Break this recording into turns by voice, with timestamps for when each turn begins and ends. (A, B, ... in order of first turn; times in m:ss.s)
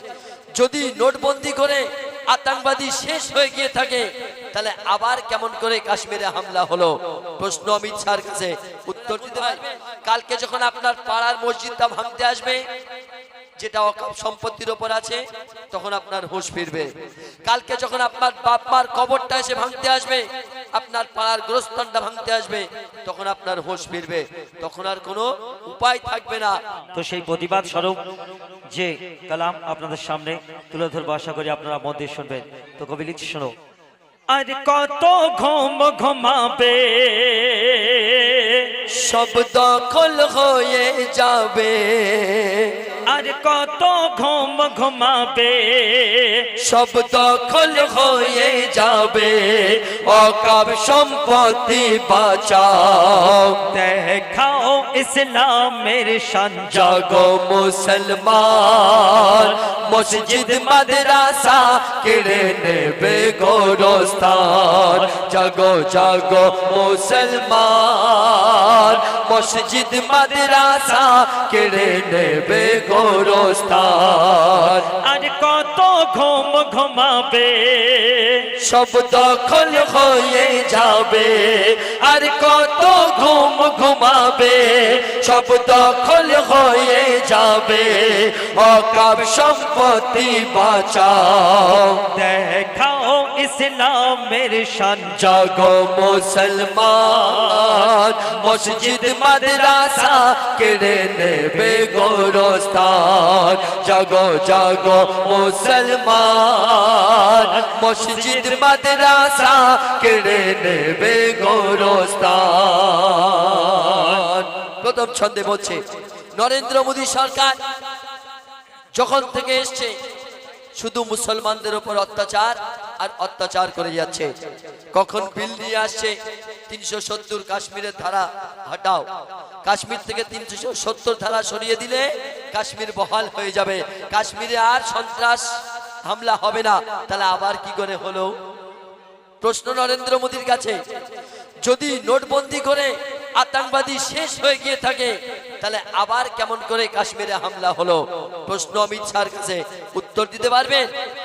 0:00.6-0:12.6 A
0:13.6-0:15.2 A
0:15.7-0:16.9 A
0:17.4-0:26.6 A
0:26.9-0:28.0 B
0:28.7-0:33.5 B
0:34.3-0:38.7 B
0:38.9-0:42.7 A
0:43.1-0:46.5 B
0:46.6-0:53.6 A
0:53.7-0:57.0 B
0:56.7-1:14.9 A
1:14.9-1:18.5 B
1:18.6-1:32.0 A
1:32.1-1:35.2 B
1:35.1-1:55.8 A
1:56.4-1:57.6 A
1:58.9-1:59.9 A
2:00.8-2:04.3 A
2:04.9-2:06.1 A
2:06.7-2:09.0 A
2:09.6-2:15.4 A
2:16.0-2:18.3 A
2:19.4-2:20.8 A
2:21.6-2:30.9 A